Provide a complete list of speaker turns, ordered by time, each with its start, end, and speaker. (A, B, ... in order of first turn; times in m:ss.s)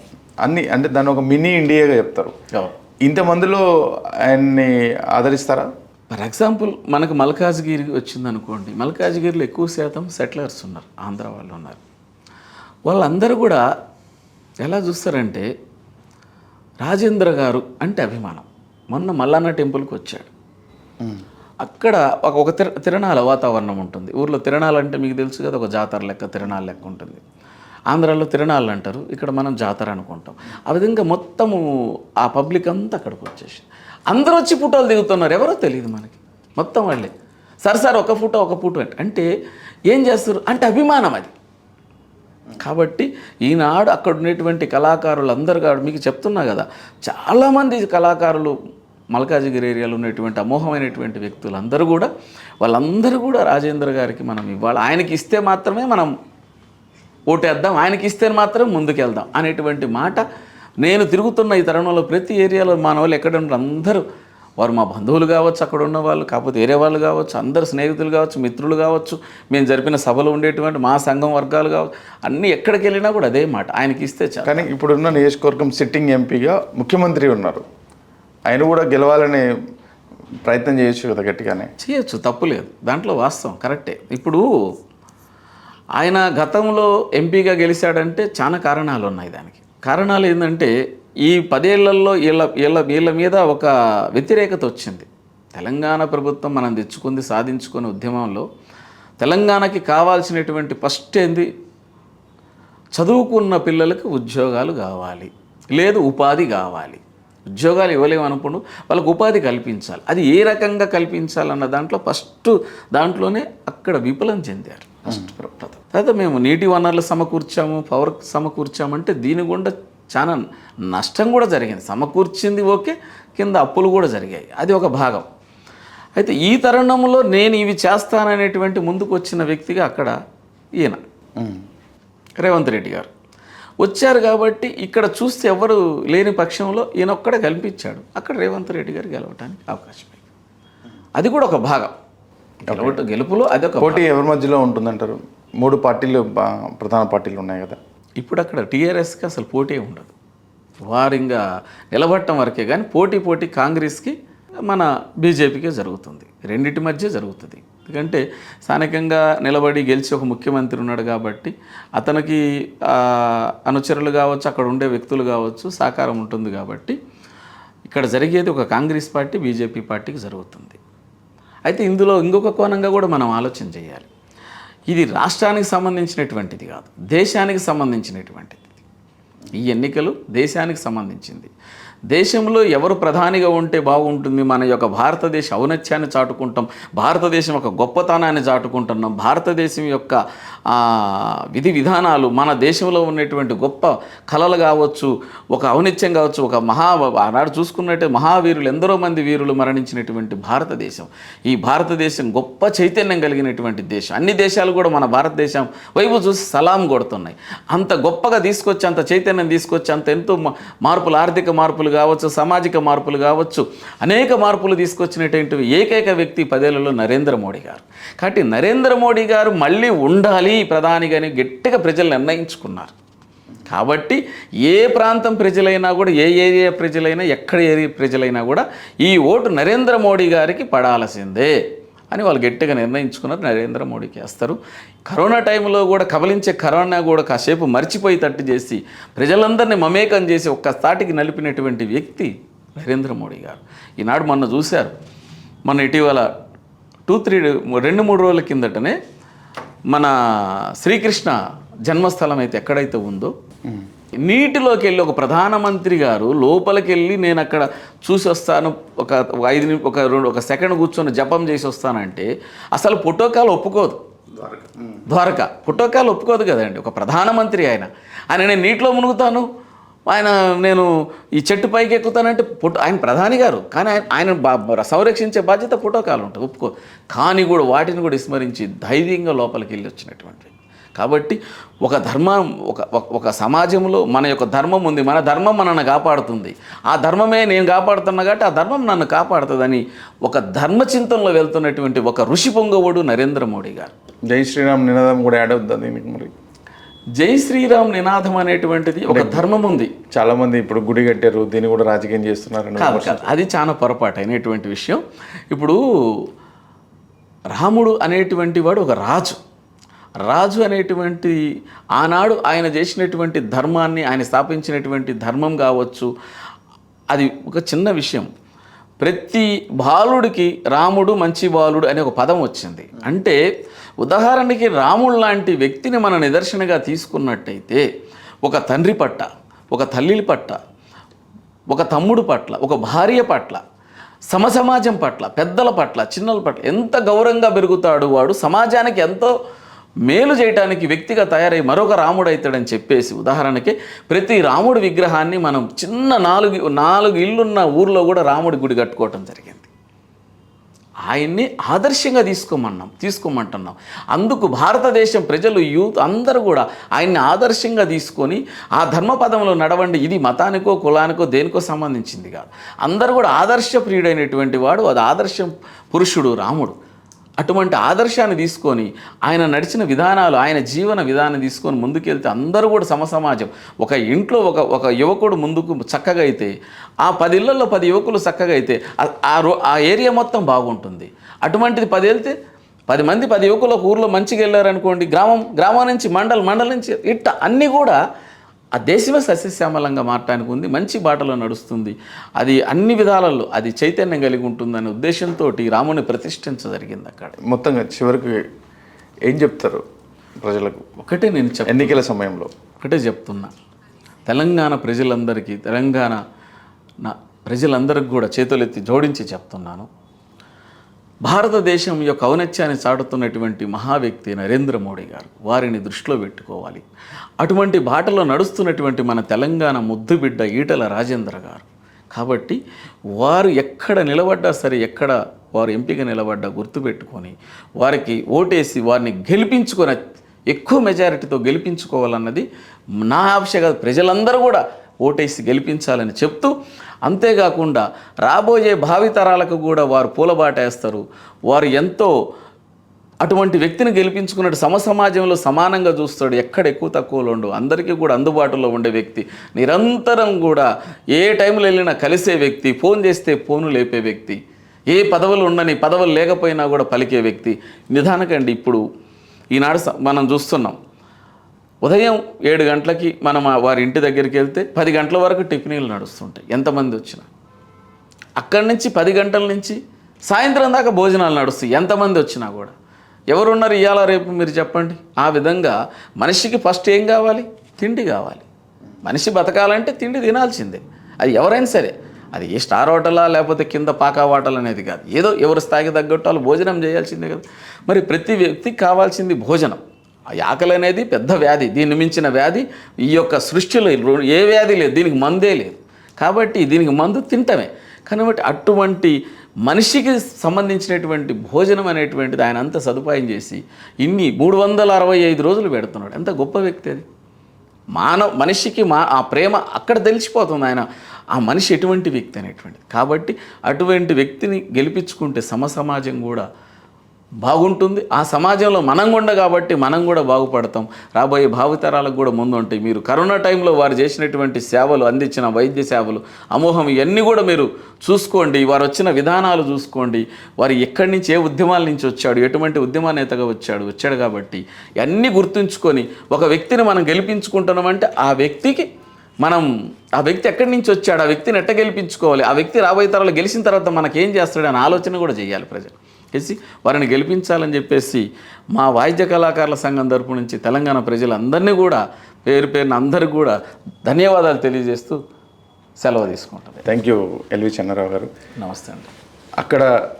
0:00.4-0:02.3 A
0:03.0-0:03.6 A
0:04.2-0:05.7 A
0:06.1-0:11.8 B
0:12.8-0:13.6 B
0:14.6-0:15.5 B
0:16.8-0:20.3 B
0:21.6-0:27.2 B
0:27.9-0:31.6 B
0:32.2-0:37.1 B
0:37.6-0:39.3 B
0:39.9-0:41.3 B
0:42.6-0:48.5 B
0:49.1-0:52.1 B
0:52.6-0:56.1 B
0:57.3-1:00.2 B
1:00.8-1:04.0 B
1:04.6-1:14.7 B
1:14.4-1:17.6 A
1:18.5-1:19.4 A
1:20.4-1:21.7 A
1:21.8-1:24.4 B
1:26.0-1:30.7 B
1:31.2-1:38.4 B
1:39.2-1:41.5 B
1:42.9-1:47.0 B
1:47.5-2:05.2 B
2:06.2-2:10.1 B
2:11.4-2:11.6 A
2:12.4-2:13.1 B
2:13.8-2:20.2 B
2:21.2-2:21.9 B
2:22.6-2:24.0 B
2:22.7-2:23.0 A
2:23.8-2:27.8 A
2:28.2-2:30.1 B
2:30.8-2:47.0 B
2:47.9-2:50.8 B
2:51.6-2:54.1 B
2:54.9-2:58.7 B
2:59.5-3:01.5 B
3:02.1-3:42.9 B
3:43.7-3:51.6 B
3:52.1-4:04.9 B
4:05.6-4:06.3 B
4:07.1-4:09.0 B
4:09.9-4:13.3 B
4:14.2-4:24.0 B
4:24.4-4:24.8 A
4:25.1-4:29.5 B
4:30.1-4:53.9 B
4:54.3-4:56.3 A
4:57.2-4:59.9 B
4:59.1-4:59.4 A
5:00.1-5:03.3 A
5:02.8-5:06.2 B
5:07.5-5:09.4 B
5:10.2-5:11.4 B
5:11.9-5:16.1 B
5:17.1-5:18.3 B
5:19.0-5:23.4 B
5:24.0-5:27.9 B
5:28.4-5:30.6 B
5:31.7-5:33.6 B
5:34.3-5:39.3 B
5:40.0-5:49.7 B
5:51.1-6:06.7 B
6:07.4-6:16.5 B
6:17.0-6:22.3 B
6:22.9-6:28.0 B
6:28.8-6:37.4 B
6:37.4-6:38.4 A
6:39.3-6:39.8 A
6:40.4-6:40.8 A
6:41.0-6:42.0 B
6:41.7-6:42.5 A
6:42.8-6:43.5 B
6:44.2-6:46.2 B
6:47.0-6:49.9 B
6:51.2-6:56.8 B
6:57.4-7:02.6 B
7:03.2-7:12.4 B
7:13.0-7:16.5 B
7:17.0-7:22.1 B
7:23.2-7:34.4 B
7:34.9-7:38.8 B
7:39.5-7:40.8 B
7:41.8-7:47.3 B
7:48.4-7:52.7 B
7:53.3-7:58.4 B
7:59.0-8:09.8 B
8:10.3-8:27.0 B
8:27.9-8:36.4 B
8:37.4-8:58.8 B
8:59.4-9:15.2 B
9:16.0-9:16.8 B
9:16.8-9:18.3 A
9:18.6-9:19.1 B
9:19.6-9:19.8 A